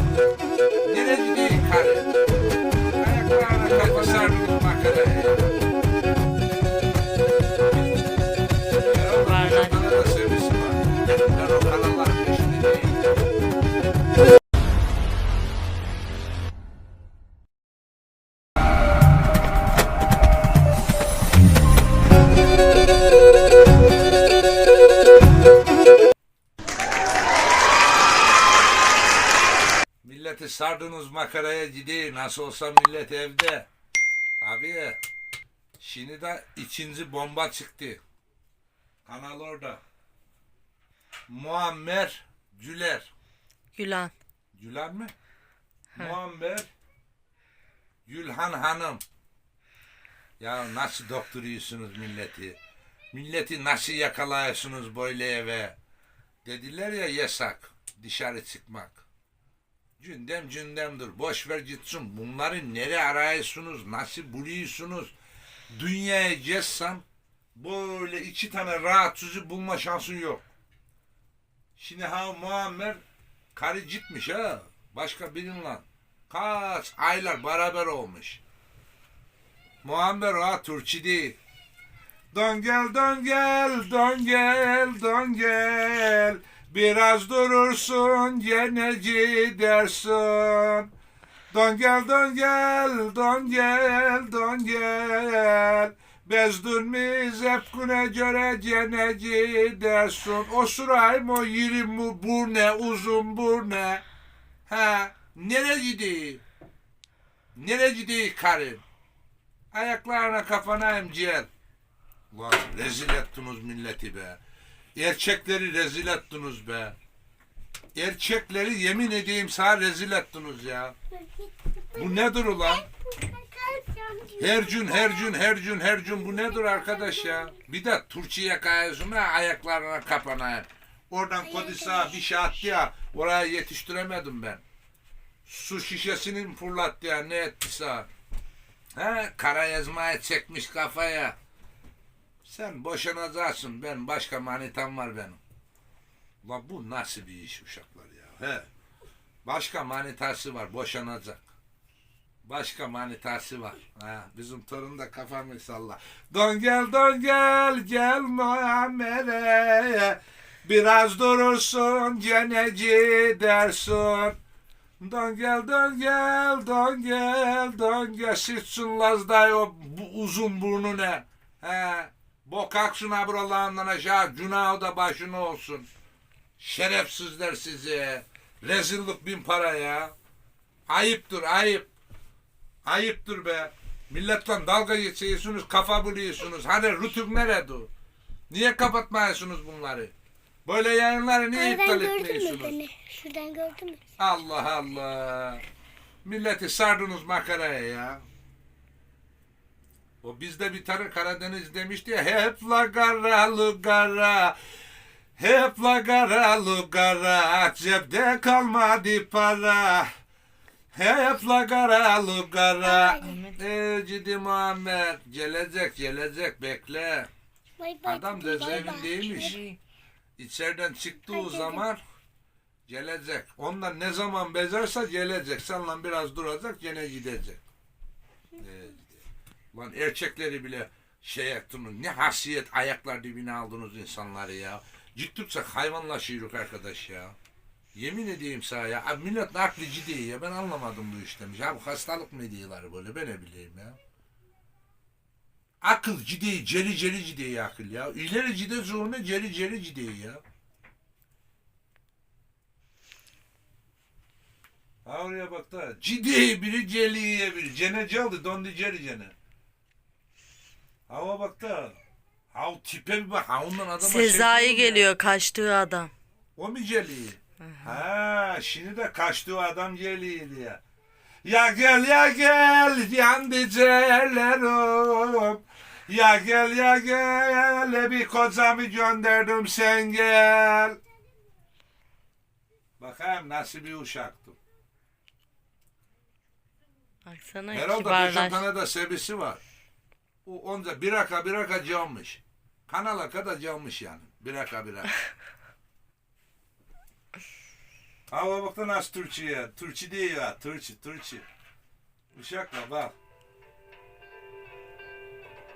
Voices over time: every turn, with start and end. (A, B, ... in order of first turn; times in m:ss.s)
0:00.8-0:02.1 A
0:03.0-0:05.6 A
0:07.6-0:08.0 A
0:08.8-0:09.8 B
0:08.8-0:13.2 A
0:30.0-0:33.7 A
0:34.4-0:35.0 A
0:35.8-0:38.0 A
0:39.0-0:39.8 A
0:41.3-0:43.1 A
0:43.8-0:44.1 B
0:44.5-0:45.1 A
0:46.0-0:46.7 A
0:48.1-0:49.0 A
0:50.4-0:52.6 A
0:53.1-0:55.8 A
0:56.4-0:59.0 A
1:00.0-1:05.1 A
1:05.7-1:07.0 A
1:07.6-1:10.5 A
1:11.8-1:13.0 A
1:13.6-1:18.4 A
1:19.8-1:21.4 A
1:22.3-1:30.9 A
1:31.5-1:44.0 A
1:44.7-1:46.4 A
1:47.6-1:48.8 A
1:49.7-1:51.5 A
1:52.3-1:54.4 A
1:55.0-1:57.0 A
1:57.9-2:01.0 A
2:01.1-2:05.4 C
2:01.9-2:02.9 A
2:04.4-2:14.6 A
2:06.1-2:07.6 C
2:11.4-2:12.5 C
2:15.5-2:18.1 A
2:18.9-2:21.4 A
2:22.4-2:25.4 A
2:26.4-2:28.7 A
2:29.4-2:31.4 A
2:32.4-2:44.4 A
2:45.0-2:55.9 A
2:56.6-3:00.2 A
3:00.9-3:01.9 A
3:02.8-3:07.9 A
3:08.5-3:10.1 A
3:10.7-3:12.8 A
3:11.5-3:14.0 C
3:14.2-3:15.6 A
3:16.2-3:18.2 A
3:20.2-3:24.6 A
3:25.4-3:30.1 A
3:30.9-3:37.3 A
3:32.8-3:33.3 C
3:33.3-3:33.6 B
3:37.8-3:39.6 C
3:38.0-3:39.8 A
3:40.4-3:42.0 A
3:41.3-3:41.8 C
3:42.9-3:47.6 A
3:48.6-3:57.4 A
3:57.9-4:04.0 A
4:05.8-4:10.4 A
4:15.0-4:19.4 A
4:21.1-4:22.0 A
4:22.5-4:25.1 A
4:24.0-4:26.1 B
4:26.6-4:30.8 A
4:27.7-4:28.0 B
4:31.4-4:41.0 A
4:43.0-4:44.6 A
4:47.3-4:48.7 B
4:47.7-4:49.6 A
4:50.4-4:55.2 A
4:58.3-5:01.5 A
5:02.3-5:03.1 A